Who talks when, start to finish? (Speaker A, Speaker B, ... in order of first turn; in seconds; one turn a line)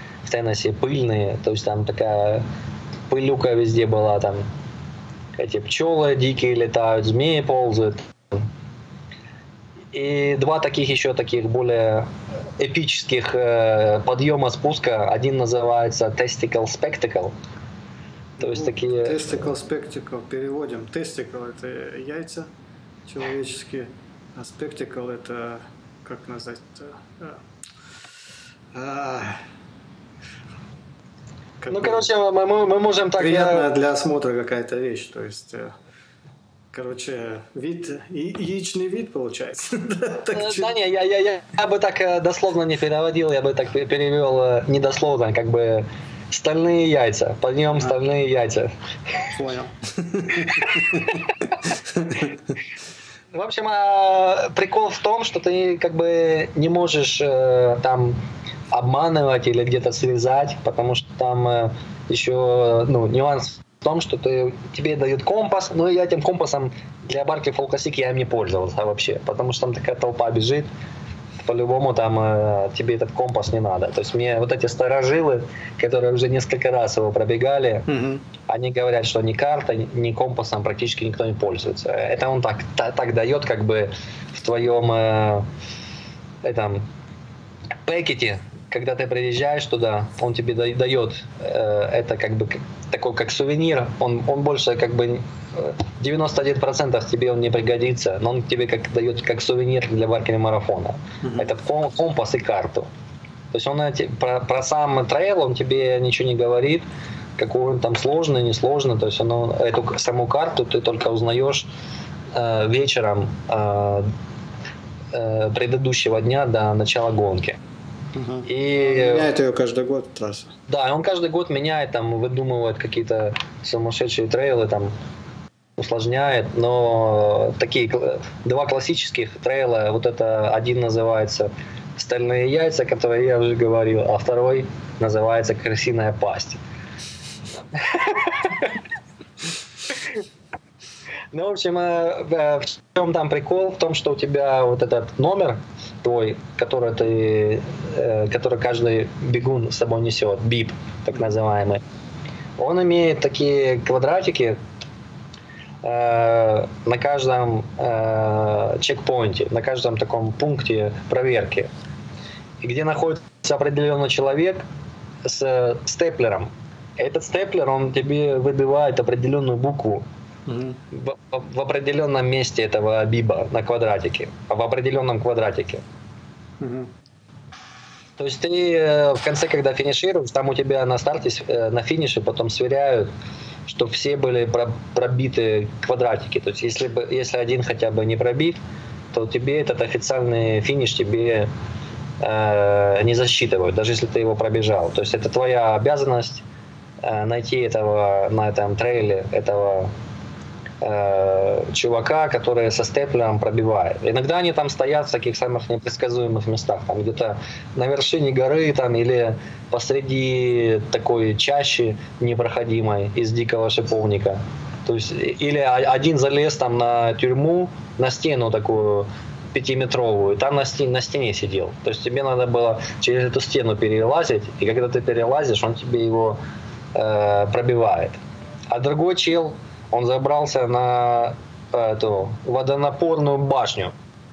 Speaker A: 0.2-2.5
Speaker A: 3.1-4.5
Speaker A: 5.4-8.5
Speaker A: 9.9-12.1
Speaker A: 12.6-17.4
Speaker B: 18.4-22.5
Speaker A: 18.4-19.3
Speaker B: 23.1-27.4
Speaker B: 28.7-29.4
Speaker B: 31.6-32.1
Speaker A: 31.7-33.7
Speaker B: 33.2-35.7
Speaker B: 36.7-40.8
Speaker A: 40.3-49.3
Speaker B: 49.3-51.2
Speaker A: 50.5-51.3
Speaker B: 51.9-52.3
Speaker A: 53.3-58.2
Speaker A: 58.7-70.7
Speaker A: 71.4-77.9
Speaker B: 77.9-78.2
Speaker A: 78.5-85.5
Speaker A: 86.4-86.9
Speaker A: 87.9-102.9
Speaker B: 101.2-101.5
Speaker A: 103.5-106.8
Speaker A: 107.4-111.7
Speaker A: 112.3-114.1
Speaker A: 115.1-117.6
Speaker B: 118.1-120.5
Speaker A: 118.5-119.3
Speaker A: 120.7-124.9
Speaker A: 125.8-136.6
Speaker A: 137.7-138.7
Speaker A: 141.3-151.8
Speaker A: 152.6-154.6
Speaker A: 155.8-161.7
Speaker A: 162.6-164.7
Speaker A: 165.2-170.0
Speaker B: 170.5-170.8
Speaker A: 170.9-175.8
Speaker B: 176.6-176.9
Speaker A: 178.2-183.1
Speaker A: 183.7-188.6
Speaker A: 189.1-191.5
Speaker A: 192.2-196.4
Speaker A: 197.0-199.9
Speaker A: 200.8-226.4
Speaker A: 226.9-228.2
Speaker A: 228.7-233.9